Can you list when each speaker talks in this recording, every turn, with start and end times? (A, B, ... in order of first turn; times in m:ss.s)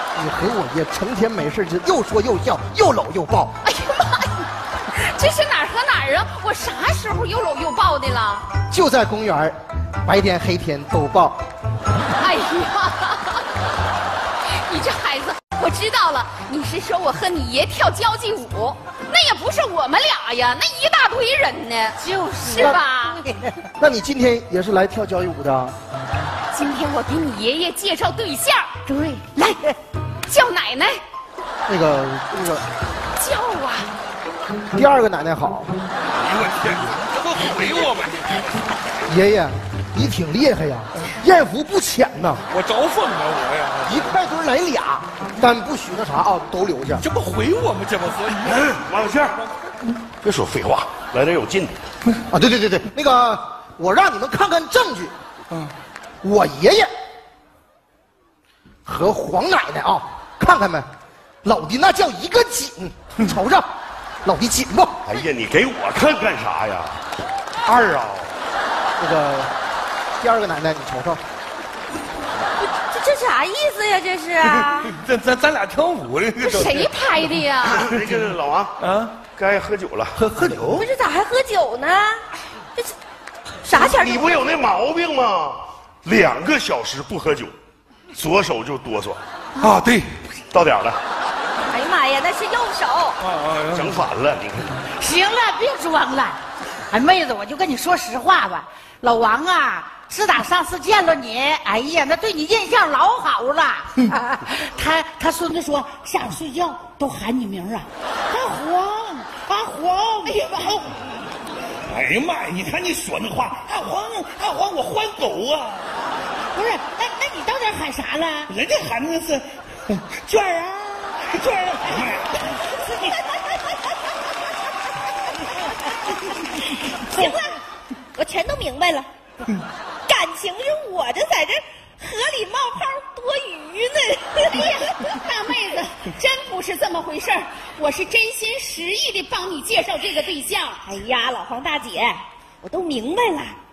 0:00.1-0:03.5 A
0:03.6-0:08.4 B
0:08.7-0:11.4 A
0:12.1-0:13.4 B
0:14.5-0:23.2 B
0:22.0-0:23.7 C
0:23.8-0:25.8 A
0:26.5-0:29.7 B
0:30.3-0:31.0 B
0:31.7-0:32.6 A
0:33.2-0:33.9 B
0:34.7-0:35.7 A
0:36.1-0:38.6 D
0:39.1-0:42.4 A
0:42.5-0:44.2 D
0:43.9-0:47.0 A
0:47.0-0:49.5 D
0:48.4-0:49.4 E
0:50.2-0:51.7 E
0:52.3-0:55.1 A
0:56.2-0:56.9 A
0:58.8-1:00.9 A
1:01.4-1:03.7 A
1:04.2-1:05.0 A
1:05.1-1:07.0 E
1:07.6-1:08.3 E
1:09.0-1:09.5 A
1:10.2-1:11.2 A
1:12.6-1:14.9 F
1:14.4-1:18.0 D
1:16.4-1:17.8 B
1:17.6-1:18.7 E
1:18.8-1:19.2 D
1:19.3-1:20.1 E
1:20.1-1:20.9 D
1:20.8-1:22.2 F
1:23.7-1:24.4 F
1:23.7-1:27.5 E
1:28.1-1:29.2 E
1:29.6-1:30.2 D
1:30.5-1:31.0 E
1:31.7-1:33.2 F
1:33.2-1:34.0 D
1:33.7-1:34.8 E
1:34.9-1:36.4 C
1:36.9-1:50.9 C
1:50.3-1:50.7 B
1:51.9-1:55.9 D
1:56.5-1:58.5 C
1:58.5-2:03.2 D
2:03.2-2:03.6 F
2:08.2-2:09.1 F
2:10.1-2:14.9 F
2:14.5-2:20.8 B
2:20.8-2:23.6 F